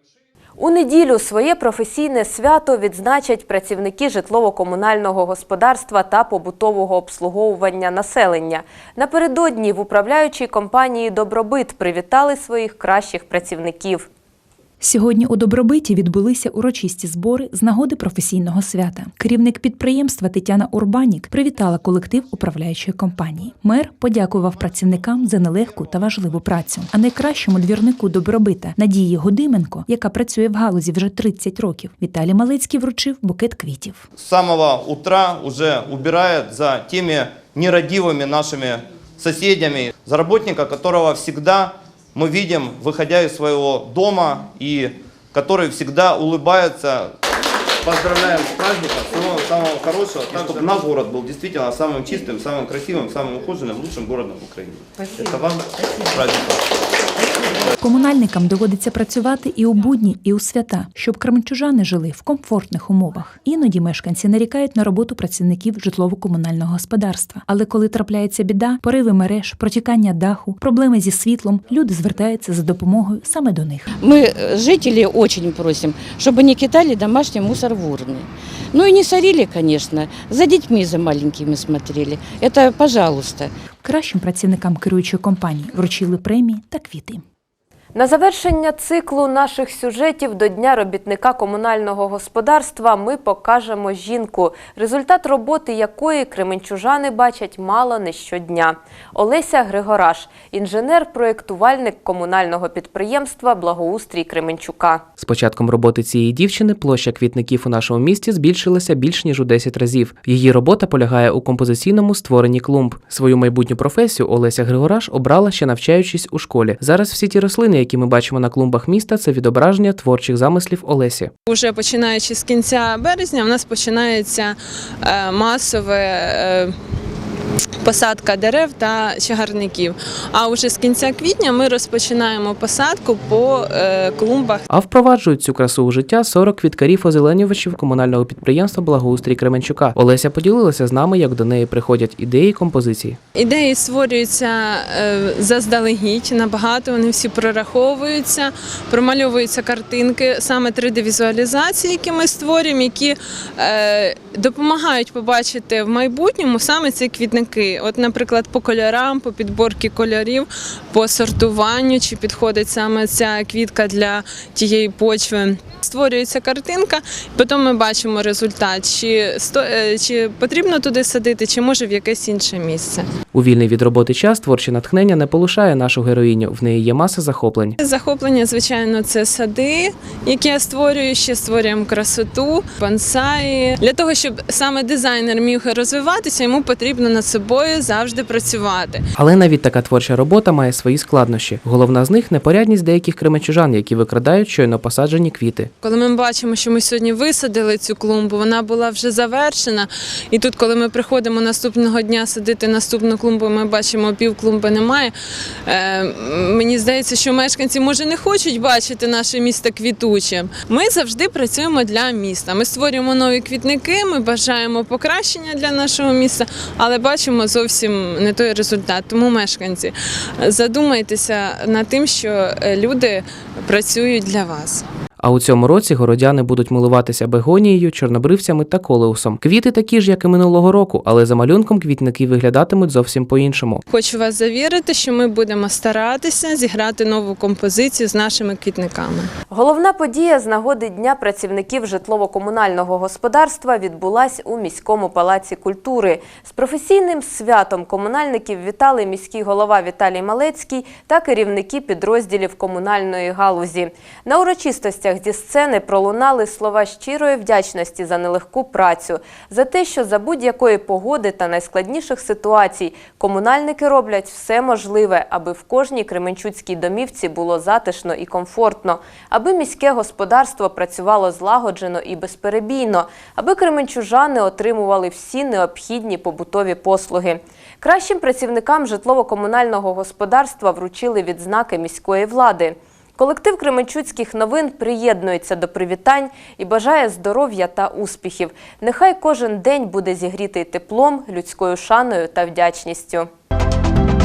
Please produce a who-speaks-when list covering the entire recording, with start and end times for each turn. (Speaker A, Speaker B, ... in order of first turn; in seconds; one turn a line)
Speaker A: 0.6-14.1
Speaker B: 14.8-34.0
Speaker C: 34.2-47.1
Speaker C: 47.8-56.6
Speaker B: 57.8-73.9
Speaker D: 74.0-83.5
Speaker B: 83.8-87.2
Speaker A: 87.9-105.0
Speaker E: 105.2-121.3
Speaker F: 121.5-126.7
Speaker F: 127.8-134.6
Speaker E: 134.7-143.2
Speaker F: 143.3-173.1
Speaker E: 173.3-177.8
Speaker F: 177.8-189.0
Speaker E: 189.2-195.7
Speaker F: 195.8-205.1
Speaker F: 205.7-224.8
Speaker E: 225.2-233.8
Speaker F: 233.9-239.3
Speaker A: 239.5-293.3